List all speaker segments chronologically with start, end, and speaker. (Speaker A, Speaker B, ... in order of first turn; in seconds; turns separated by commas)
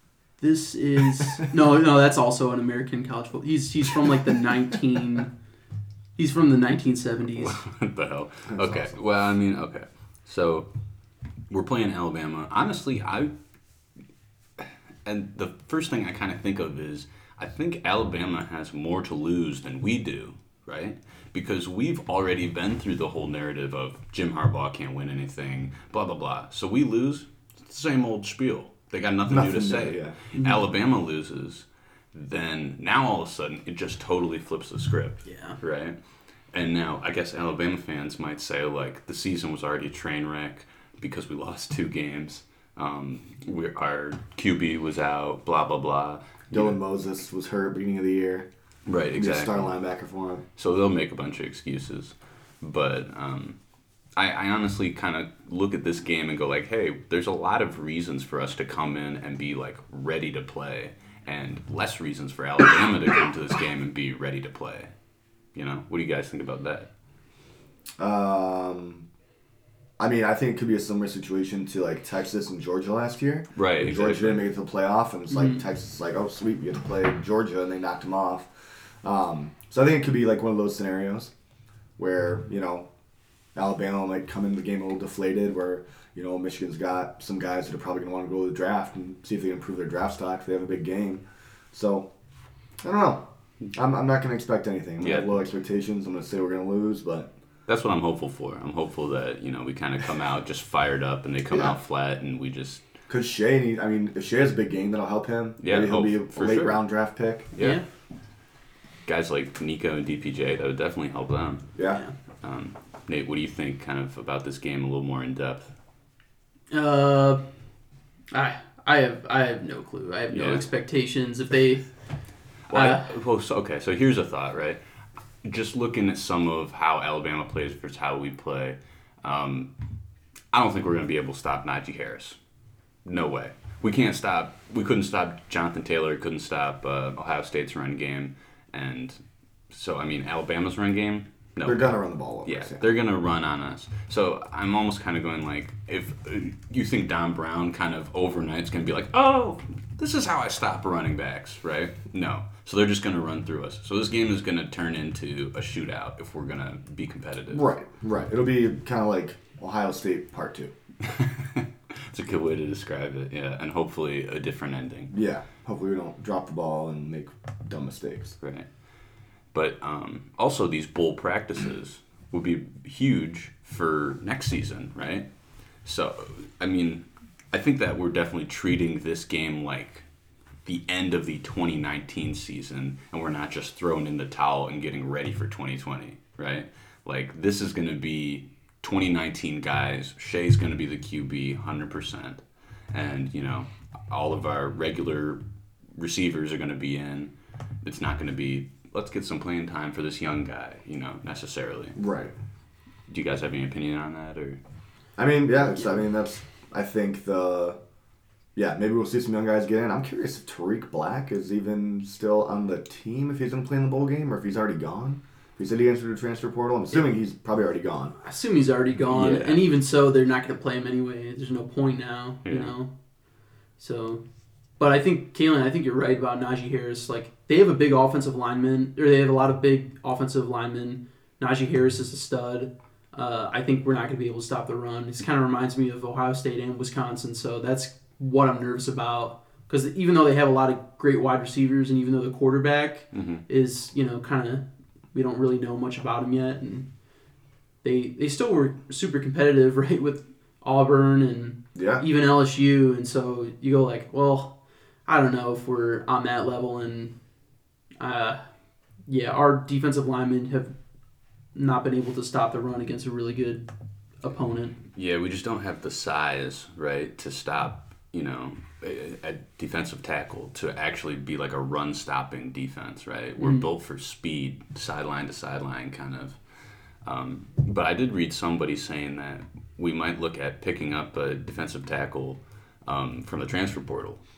Speaker A: 0.4-5.3, Speaker A: 6.2-7.6, Speaker B: 7.3-10.7, Speaker C: 8.5-9.0, Speaker B: 11.5-13.3, Speaker B: 15.1-36.0, Speaker C: 29.3-30.2, Speaker A: 30.3-30.6, Speaker A: 35.2-35.6, Speaker B: 36.5-46.8, Speaker C: 46.5-48.5, Speaker B: 48.9-49.7, Speaker C: 49.2-50.4, Speaker B: 50.6-53.6, Speaker B: 54.2-64.9, Speaker B: 65.5-66.9, Speaker C: 68.0-69.1, Speaker C: 70.0-81.3, Speaker B: 73.5-74.4, Speaker A: 75.3-75.6, Speaker C: 82.0-82.9, Speaker C: 83.5-92.1, Speaker C: 92.8-97.3, Speaker B: 95.0-95.3, Speaker B: 97.7-102.8, Speaker C: 103.1-107.5, Speaker B: 105.6-106.8, Speaker B: 107.5-107.8, Speaker A: 107.6-107.8, Speaker B: 109.0-111.7, Speaker C: 111.8-112.0, Speaker B: 112.4-115.7, Speaker A: 116.7-117.4, Speaker A: 118.3-121.9, Speaker B: 120.3-120.6, Speaker B: 122.7-124.8, Speaker A: 122.7-123.1, Speaker B: 125.4-129.7, Speaker B: 130.5-132.4, Speaker B: 133.0-141.9, Speaker C: 141.7-142.8, Speaker B: 142.4-157.7, Speaker C: 157.5-160.7, Speaker B: 161.0-165.1, Speaker C: 165.1-168.3, Speaker B: 168.4-168.7, Speaker B: 169.5-180.1, Speaker B: 180.7-195.4, Speaker B: 195.9-202.0, Speaker C: 202.0-202.3, Speaker B: 203.1-204.6, Speaker C: 205.2-207.8, Speaker C: 208.6-218.2, Speaker A: 218.2-222.9, Speaker B: 219.1-219.6, Speaker B: 222.4-222.7, Speaker A: 223.8-224.2, Speaker A: 224.8-246.9, Speaker B: 243.1-243.4, Speaker A: 247.8-257.1, Speaker C: 251.7-252.0, Speaker A: 258.0-258.4, Speaker A: 259.1-260.8, Speaker A: 261.5-263.7, Speaker A: 264.2-264.8, Speaker B: 264.9-276.4, Speaker A: 273.4-273.6, Speaker B: 276.9-284.2